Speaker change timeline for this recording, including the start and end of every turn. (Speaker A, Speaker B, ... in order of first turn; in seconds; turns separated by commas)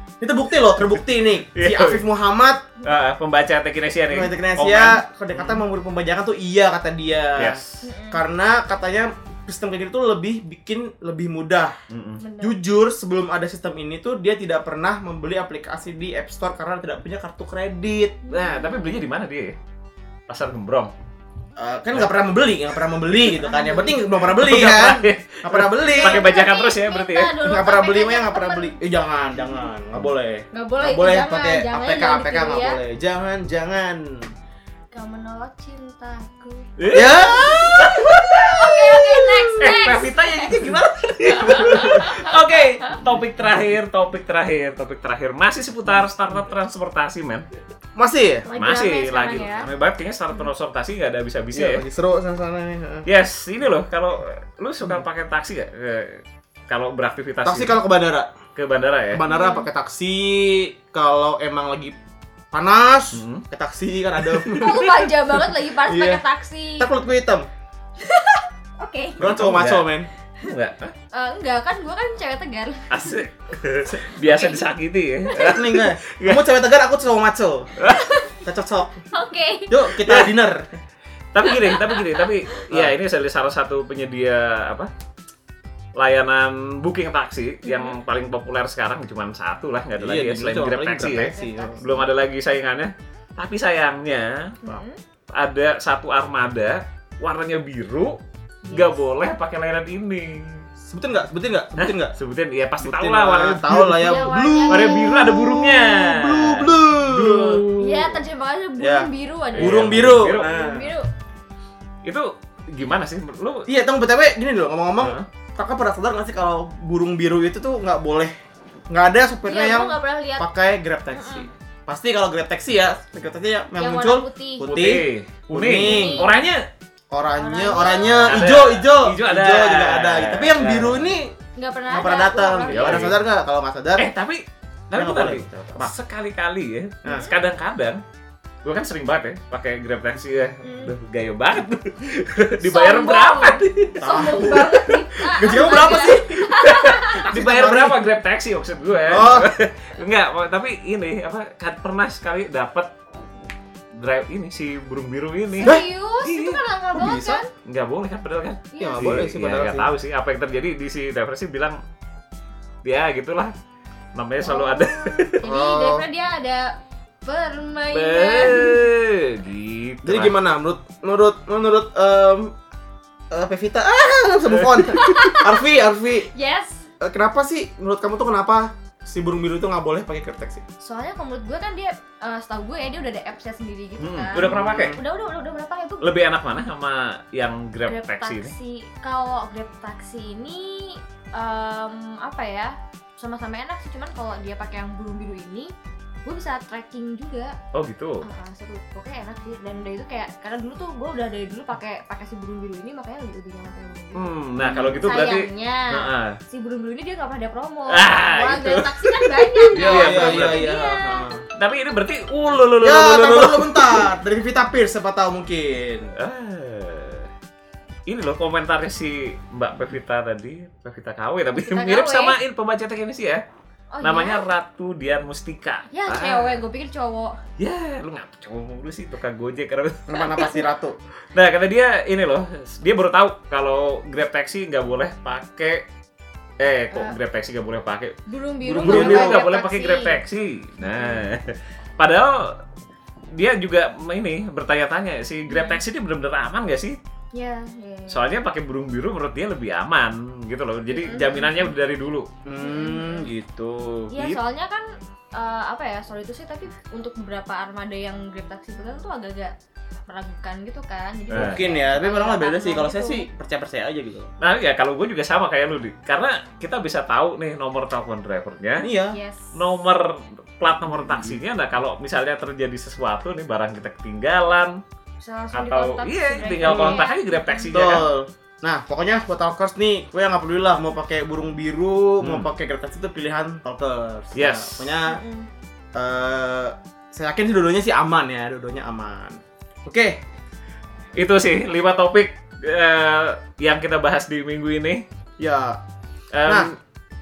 Speaker A: 0.2-2.6, Speaker B: 1.5-2.0, Speaker B: 2.8-5.6, Speaker A: 4.1-7.6, Speaker B: 7.4-7.9, Speaker C: 7.8-8.2, Speaker A: 8.1-11.7, Speaker B: 11.9-12.2, Speaker C: 12.2-12.6, Speaker A: 12.4-18.2, Speaker C: 18.2-19.0, Speaker B: 18.3-19.5, Speaker B: 20.3-20.9, Speaker A: 21.6-26.3, Speaker C: 23.2-24.2, Speaker B: 24.4-27.3, Speaker C: 25.8-28.8, Speaker A: 27.4-34.3, Speaker C: 30.5-32.8, Speaker C: 34.9-42.6, Speaker B: 36.8-38.9, Speaker A: 36.9-38.0, Speaker A: 39.0-39.8, Speaker B: 39.5-47.4, Speaker A: 41.7-41.9, Speaker A: 48.0-48.5, Speaker C: 48.5-49.7, Speaker B: 48.5-51.8, Speaker A: 51.5-53.1, Speaker B: 53.0-57.8, Speaker A: 57.4-58.3, Speaker B: 58.5-59.2, Speaker A: 59.1-62.0, Speaker C: 59.2-59.7, Speaker A: 62.5-66.2, Speaker B: 63.1-63.4, Speaker C: 64.5-66.9, Speaker A: 66.8-67.5, Speaker C: 68.0-69.3, Speaker A: 69.2-70.1, Speaker B: 69.2-69.9, Speaker B: 70.4-70.9, Speaker C: 71.1-73.1, Speaker B: 72.9-76.5, Speaker C: 74.2-74.6, Speaker A: 75.3-77.7, Speaker B: 77.8-78.1, Speaker C: 77.9-78.3, Speaker A: 78.4-79.0, Speaker C: 79.1-79.8, Speaker A: 79.7-80.7, Speaker B: 80.0-80.3, Speaker B: 81.3-84.9, Speaker C: 81.4-82.2, Speaker A: 82.7-82.9, Speaker B: 86.0-94.8, Speaker C: 87.6-87.9, Speaker A: 90.0-91.8, Speaker C: 91.3-92.1, Speaker C: 94.6-95.0, Speaker B: 95.3-98.2, Speaker C: 98.6-98.9, Speaker B: 98.7-100.6, Speaker A: 100.8-102.1, Speaker B: 101.8-108.1, Speaker A: 102.8-107.8, Speaker C: 103.9-105.2, Speaker C: 107.8-111.0, Speaker A: 108.8-110.9, Speaker B: 109.5-110.5, Speaker B: 112.0-113.7, Speaker A: 113.7-118.3, Speaker B: 115.0-115.2, Speaker A: 118.9-126.3, Speaker C: 119.5-120.4, Speaker C: 121.1-121.5, Speaker C: 123.8-124.7, Speaker B: 124.6-126.6, Speaker C: 125.7-126.4, Speaker A: 127.1-131.3, Speaker C: 127.3-128.5, Speaker B: 128.3-131.1, Speaker C: 131.6-133.1, Speaker A: 131.9-134.1, Speaker B: 132.7-133.2, Speaker B: 134.0-138.0, Speaker A: 134.9-135.9, Speaker A: 137.0-137.3, Speaker C: 137.1-137.3, Speaker B: 138.6-144.7, Speaker C: 140.6-140.9, Speaker C: 142.6-147.4, Speaker A: 144.0-144.8, Speaker A: 145.3-146.4, Speaker B: 145.5-152.9, Speaker A: 147.2-148.0, Speaker A: 149.1-149.5, Speaker B: 153.9-156.6, Speaker C: 155.6-157.5, Speaker A: 156.9-157.4, Speaker B: 157.6-161.8, Speaker C: 158.7-159.2, Speaker A: 158.8-159.9, Speaker B: 162.8-163.5, Speaker B: 164.1-165.4, Speaker C: 164.4-166.7, Speaker A: 165.4-166.1, Speaker C: 167.2-168.8, Speaker B: 167.9-170.3, Speaker A: 170.0-172.5, Speaker A: 173.3-176.3, Speaker C: 174.9-175.6, Speaker C: 176.3-176.8, Speaker A: 177.0-180.6, Speaker C: 180.8-186.1, Speaker B: 184.0-185.0, Speaker A: 184.3-185.0, Speaker B: 186.0-188.5, Speaker C: 187.9-195.7, Speaker C: 196.2-197.5, Speaker B: 197.7-198.2, Speaker C: 198.2-211.3, Speaker B: 204.1-206.4, Speaker B: 207.9-210.7, Speaker A: 209.8-211.4, Speaker B: 211.6-214.1, Speaker A: 212.8-216.1, Speaker B: 216.2-217.3, Speaker B: 218.1-223.4, Speaker C: 221.6-222.4, Speaker C: 223.9-224.4, Speaker B: 224.0-226.6, Speaker C: 225.9-227.4, Speaker B: 227.6-230.5, Speaker A: 230.1-231.0, Speaker C: 230.3-230.7, Speaker B: 231.3-235.8, Speaker B: 236.6-238.1, Speaker C: 236.9-237.2, Speaker C: 238.3-240.2, Speaker A: 238.6-239.4, Speaker B: 238.8-242.5, Speaker C: 240.8-241.2, Speaker B: 243.3-246.9, Speaker C: 245.5-245.8, Speaker C: 247.3-248.3, Speaker B: 248.1-252.3, Speaker C: 250.9-251.7, Speaker A: 252.4-253.3, Speaker C: 252.6-253.3, Speaker B: 253.3-254.4, Speaker C: 254.1-259.5, Speaker C: 260.1-263.2, Speaker A: 261.3-264.3, Speaker B: 261.3-261.6, Speaker B: 264.4-268.9, Speaker A: 268.8-269.2, Speaker C: 269.1-269.6, Speaker B: 269.5-274.8, Speaker C: 275.2-277.8, Speaker B: 275.5-278.1, Speaker A: 276.6-277.0, Speaker A: 277.7-285.2, Speaker B: 282.2-282.5, Speaker B: 284.3-284.9, Speaker C: 285.1-285.5, Speaker A: 285.9-290.2, Speaker B: 291.1-295.0, Speaker A: 295.4-295.8, Speaker B: 296.3-296.7